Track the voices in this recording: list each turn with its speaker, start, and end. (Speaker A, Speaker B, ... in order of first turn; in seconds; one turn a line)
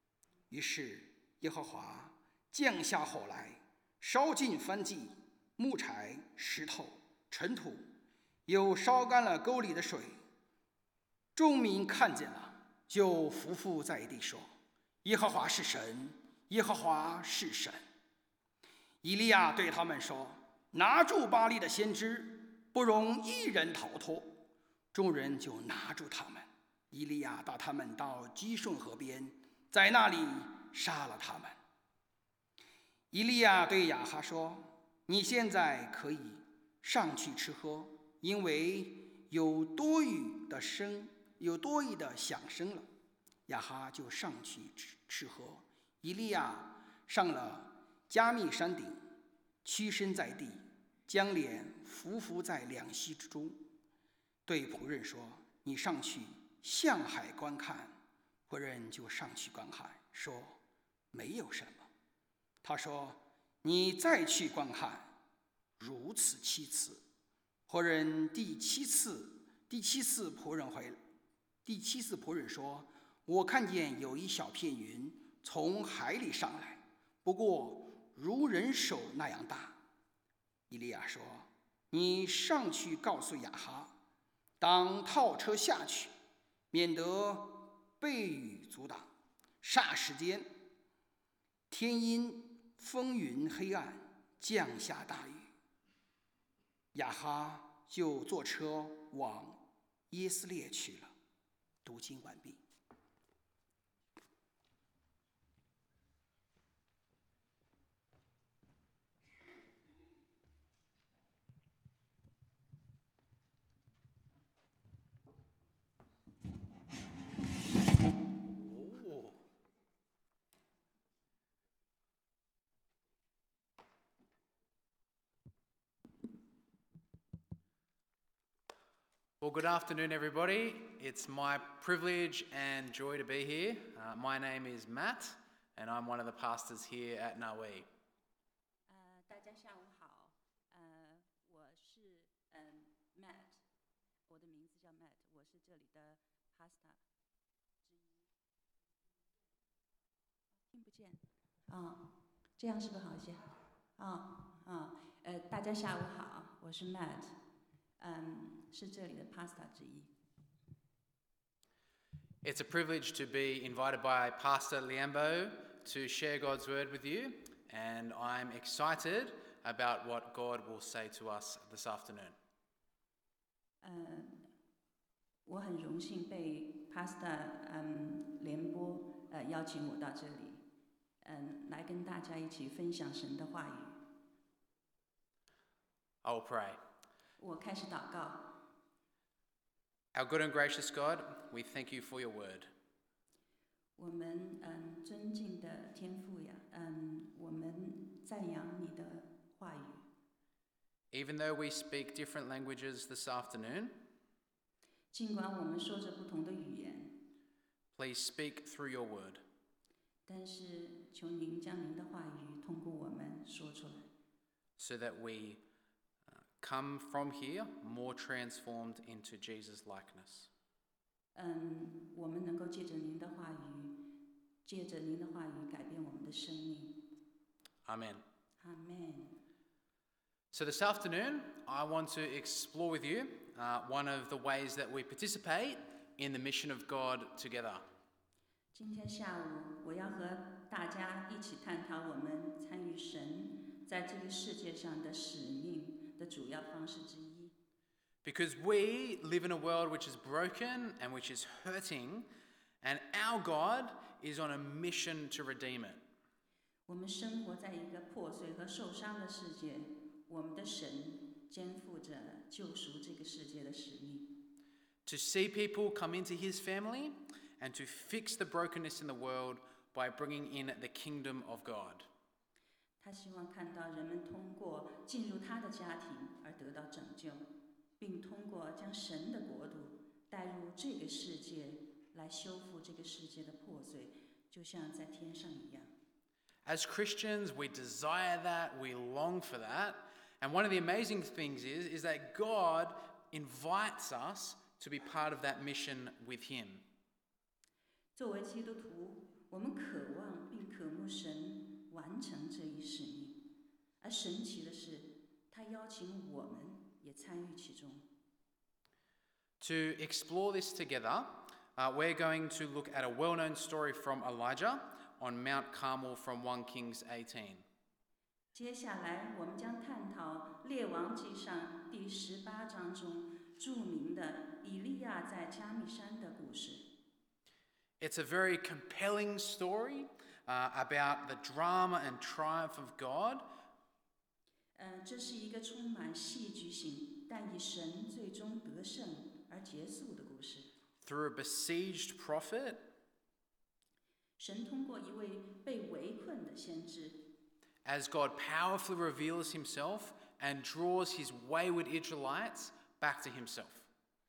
Speaker A: 0.5-7.9
Speaker A: 8.5-10.2
Speaker A: 11.3-14.5
Speaker A: 15.0-17.8
Speaker A: 19.0-24.4
Speaker A: 24.9-31.6
Speaker A: 33.1-42.9
Speaker A: 43.5-49.0
Speaker A: 49.6-53.7
Speaker A: 54.5-60.6
Speaker A: 61.1-61.9
Speaker A: 62.6-65.2
Speaker A: 65.8-67.0
Speaker A: 67.7-71.0
Speaker A: 71.6-79.8
Speaker A: 80.7-84.0
Speaker A: 84.6-86.1
Speaker A: 86.7-89.1
Speaker A: 89.6-90.5
Speaker A: 91.7-95.5
Speaker A: 96.9-101.1
Speaker A: 101.8-102.6
Speaker B: 118.5-119.4
Speaker B: 129.4-137.9
Speaker C: 138.9-143.6
Speaker C: 144.3-147.0
Speaker C: 147.8-148.2
Speaker C: 150.7-157.4
Speaker C: 158.0-160.1
Speaker B: 162.4-172.3
Speaker C: 173.8-174.5
Speaker C: 175.4-180.6
Speaker C: 181.2-184.2
Speaker B: 186.2-186.8
Speaker C: 187.4-188.7
Speaker B: 190.1-192.7
Speaker C: 194.0-200.1
Speaker B: 201.1-204.1
Speaker C: 205.1-207.3
Speaker B: 207.9-209.4
Speaker C: 210.2-214.1
Speaker B: 214.8-215.6
Speaker B: 216.3-220.5
Speaker C: 221.3-227.2
Speaker B: 227.8-228.2
Speaker C: 228.6-229.4
Speaker B: 230.5-237.8
Speaker C: 238.7-247.6
Speaker B: 248.2-252.3
Speaker B: 252.8-256.0
Speaker C: 256.9-264.5
Speaker B: 265.0-272.1
Speaker C: 273.0-277.5
Speaker C: 278.0-285.9
Speaker B: 286.6-296.8
Speaker C: 298.1-308.1
Speaker B: 309.6-317.6
Speaker C: 318.5-326.9
Speaker B: 328.0-333.5
Speaker C: 334.7-340.7
Speaker B: 341.0-342.9
Speaker C: 344.4-347.3
Speaker B: 347.8-353.9